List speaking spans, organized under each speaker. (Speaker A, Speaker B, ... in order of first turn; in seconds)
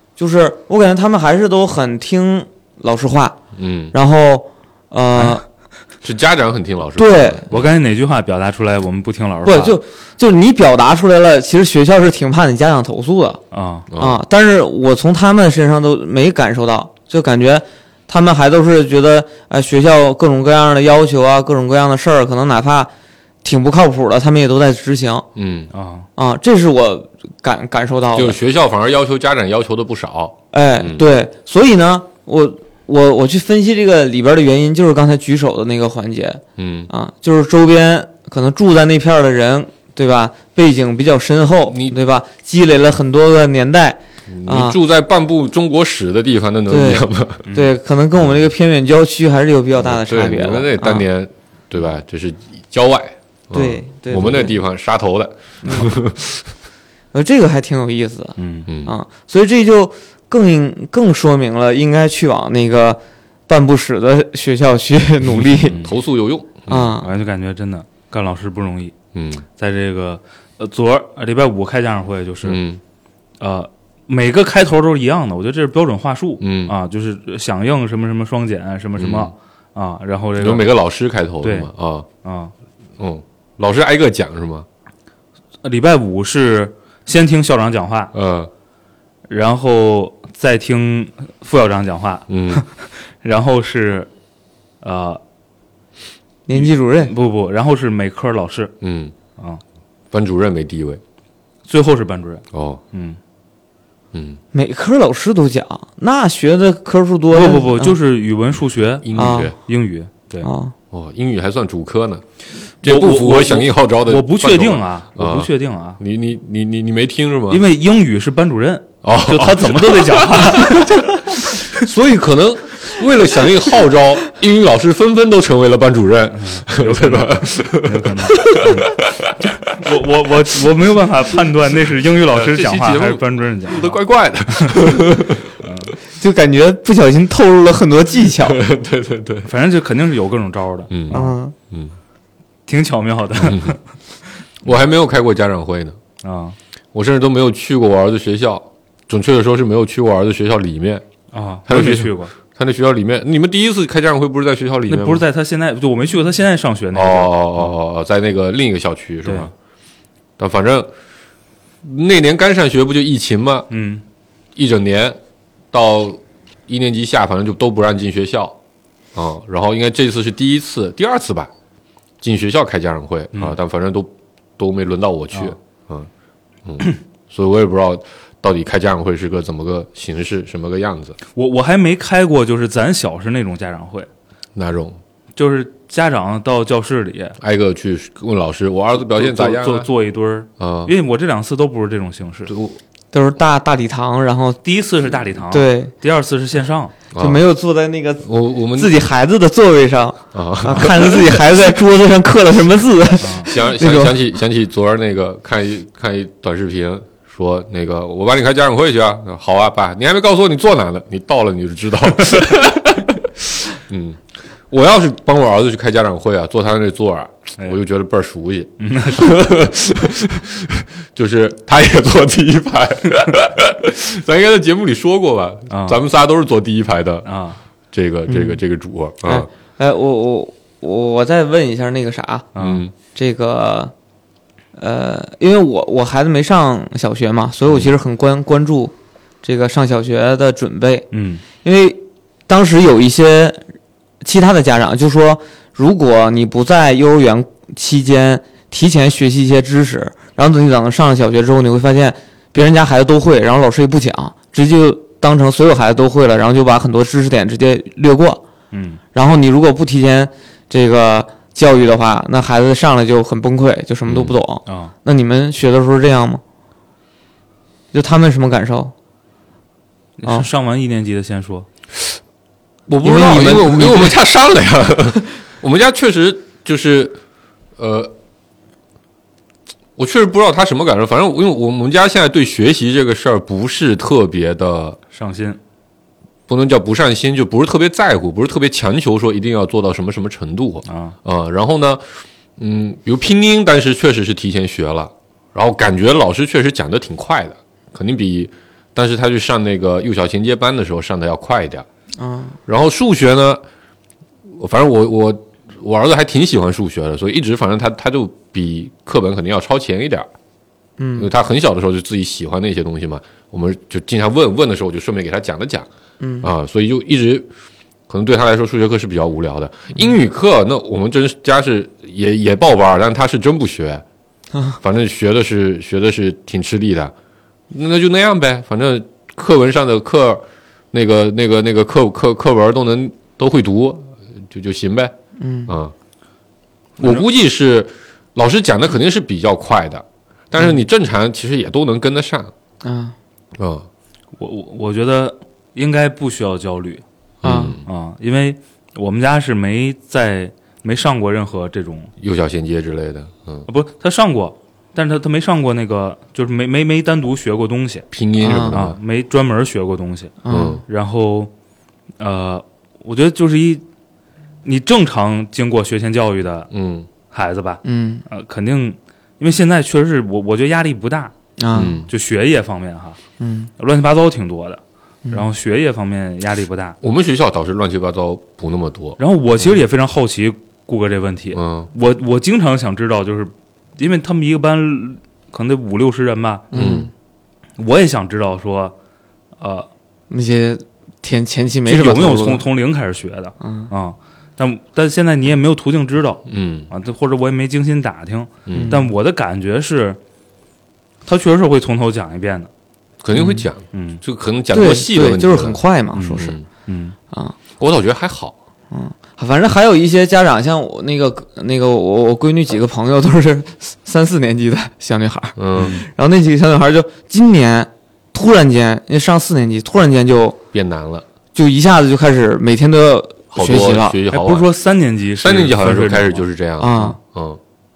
Speaker A: 0.2-3.4, 3.9-5.4, 7.0-7.5, 9.4-13.4, 13.9-22.9, 23.4-25.3, 26.2-28.4, 30.5-44.8, 46.7-51.0, 53.5-54.5, 55.6-55.9, 57.1-65.8, 66.7-67.1, 96.5-97.1, 104.5-108.0, 109.1-109.5, 110.4-110.7, 136.2-138.6, 141.1-141.5, 193.1-194.6, 195.5-195.9, 197.2-204.2, 228.3-228.6, 229.2-232.5, 233.1-233.9, 234.8-241.1, 241.6-243.6, 244.2-258.4, 259.1-266.4, 267.9-268.9, 273.0-274.1, 302.2-302.6, 311.0-311.3, 316.2-316.5, 335.4-335.7, 342.8-343.1, 347.4-347.8, 358.4-358.8, 360.4-360.8, 367.8-368.2, 371.6-372.0, 373.4-373.7, 386.7-387.1, 390.3-392.6, 393.6-393.9, 398.7-399.1, 403.4-403.6, 404.7-406.6, 408.9-420.6, 421.5-424.2, 426.8-427.2
Speaker B: 3.5-3.9, 6.0-7.7, 13.9-14.2, 25.4-25.7, 28.1-31.1, 36.6-36.9, 41.7-42.0, 44.3-47.5, 49.8-56.5, 58.7-58.9, 65.8-67.0, 69.1-69.4, 72.4-72.8, 76.4-76.7, 79.0-79.3, 80.4-82.0, 83.0-84.7, 88.1-88.5, 92.3-92.6, 98.8-99.1, 100.1-101.0, 102.5-102.8, 104.1-104.4, 109.0-109.5, 110.9-112.2, 112.8-117.6, 119.0-129.4, 132.3-135.5, 138.3-139.5, 140.9-141.9, 143.4-143.7, 144.6-145.9, 146.9-151.0, 151.7-155.2, 156.9-159.5, 160.4-160.9, 161.8-163.7, 164.5-165.2, 165.7-168.6, 169.1-171.5, 172.2-176.1, 176.6-181.2, 184.5-185.0, 187.4-189.9, 190.6-190.9, 192.5-192.8, 197.1-197.4, 198.2-199.0, 200.3-201.4, 203.4-227.3, 227.9-229.5, 232.6-232.9, 264.1-264.4, 272.9-277.2, 277.8-278.1, 280.0-285.0, 286.5-292.0, 292.6-301.9, 302.6-303.6, 304.5-310.3, 311.2-315.9, 316.4-317.5, 318.1-324.0, 324.8-327.1, 327.7-335.1, 335.7-335.9, 337.0-342.5, 343.6-343.9, 347.4-347.8, 352.2-353.7, 358.1-359.0, 360.5-360.8, 366.7-367.1, 371.7-372.1, 377.0-379.2, 381.5-381.9, 386.7-387.1, 396.4-396.9, 398.6-399.0, 403.2-405.8, 406.4-406.6, 407.8-408.5, 415.6-416.0, 420.7-421.2, 423.5-424.7, 425.4-427.6
Speaker C: 7.5-9.8, 13.5-13.8, 25.7-26.1, 47.4-47.7, 58.4-58.7, 65.6-65.9, 67.0-68.9, 69.6-72.6, 73.4-80.7, 81.4-81.7, 82.2-82.5, 85.6-88.1, 89.3-94.1, 94.8-95.2, 96.5-98.7, 101.7-103.2, 107.3-110.5, 112.8-116.0, 117.5-121.2, 126.3-129.0, 129.7-134.9, 135.6-135.9, 139.4-141.3, 142.7-143.8, 146.2-146.6, 151.3-152.3, 154.9-157.7, 159.2-159.5, 163.7-164.0, 181.3-184.1, 185.3-187.4, 189.1-192.5, 194.6-196.9, 203.2-203.5, 218.8-219.4, 225.7-226.0, 227.2-227.6, 232.5-232.8, 241.1-241.4, 258.7-259.0, 264.6-264.9, 270.2-271.6, 285.1-285.6, 290.8-291.1, 337.0-337.2, 344.4-347.0, 347.8-352.1, 353.7-358.1, 358.7-361.5, 362.2-363.8, 364.6-366.7, 367.3-371.3, 372.1-373.2, 373.8-377.0, 379.2-386.7, 387.8-388.9, 389.6-389.9, 391.9-400.2, 401.2-402.7, 403.9-404.2, 406.1-407.1, 415.8-416.0, 424.3-426.4